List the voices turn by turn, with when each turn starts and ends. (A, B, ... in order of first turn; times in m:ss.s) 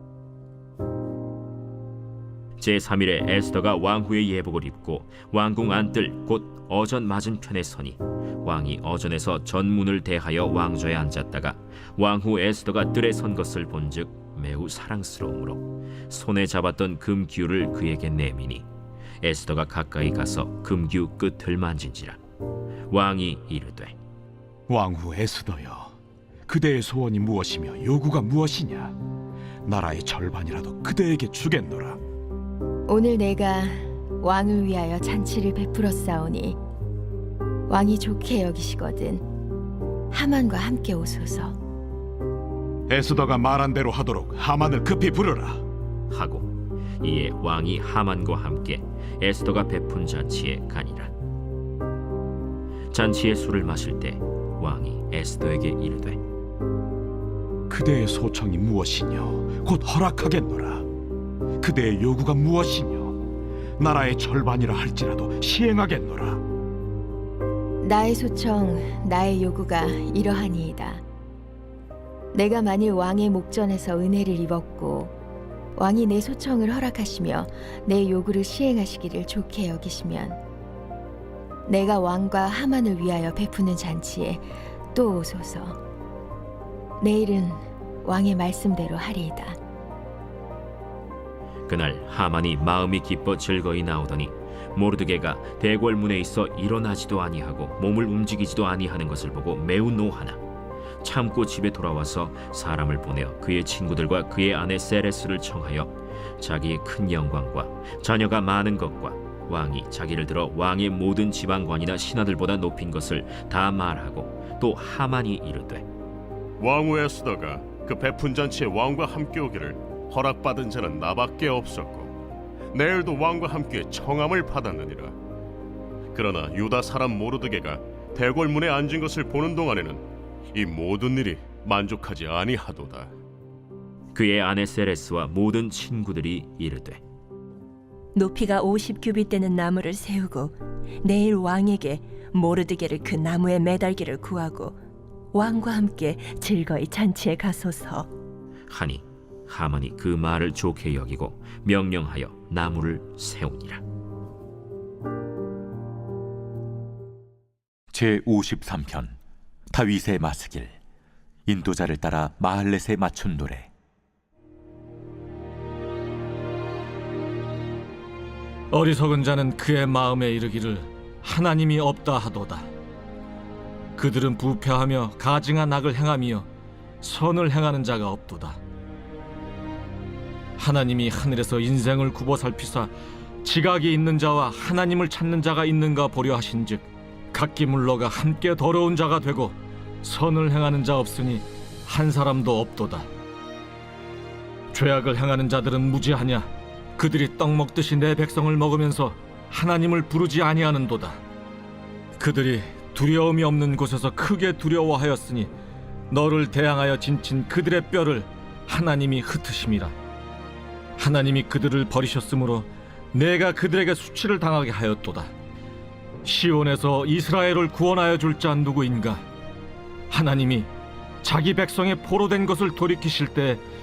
0:02.6-0:18.7 A
0:19.2-0:22.2 A
0:22.9-0:24.0 A
0:24.7-0:25.9 B
0:26.5-0:29.0 B
0:29.7-0:32.0 B
0:32.9-0:36.6 C
0:37.7-0:39.2 C
0:40.1-0:41.6 C
0:42.9-0:45.6 B
0:46.1-0:51.1 A
0:52.9-0:56.2 A
0:57.7-1:00.9 B
1:01.6-1:03.2 B
1:03.8-1:06.4 B
1:07.8-1:11.0 C
1:12.3-1:15.1 C
1:15.8-1:20.4 C
1:21.7-1:25.8 C
1:27.0-1:29.6 C
1:31.7-1:40.4 A
1:41.0-1:55.9 A
1:56.6-2:02.1 D
2:02.7-2:05.2 D
2:06.1-2:13.1 D
2:14.2-2:17.0 A
2:18.2-2:24.8 E
2:25.3-2:28.1 E
2:28.7-2:33.8 A
2:38.0-2:39.0 F
2:39.8-2:40.7 F
2:41.5-2:43.7 F
2:48.7-2:52.7 G
2:54.0-2:56.5 G
2:57.0-2:58.6 G
3:00.6-3:02.9 G
3:03.4-3:13.1 G
3:14.7-3:21.2 G
3:22.2-3:25.5 G
3:26.1-3:30.0 G
3:31.0-3:35.3 G
3:36.2-3:39.2 G
3:40.1-3:40.7 G
3:41.2-3:43.6 G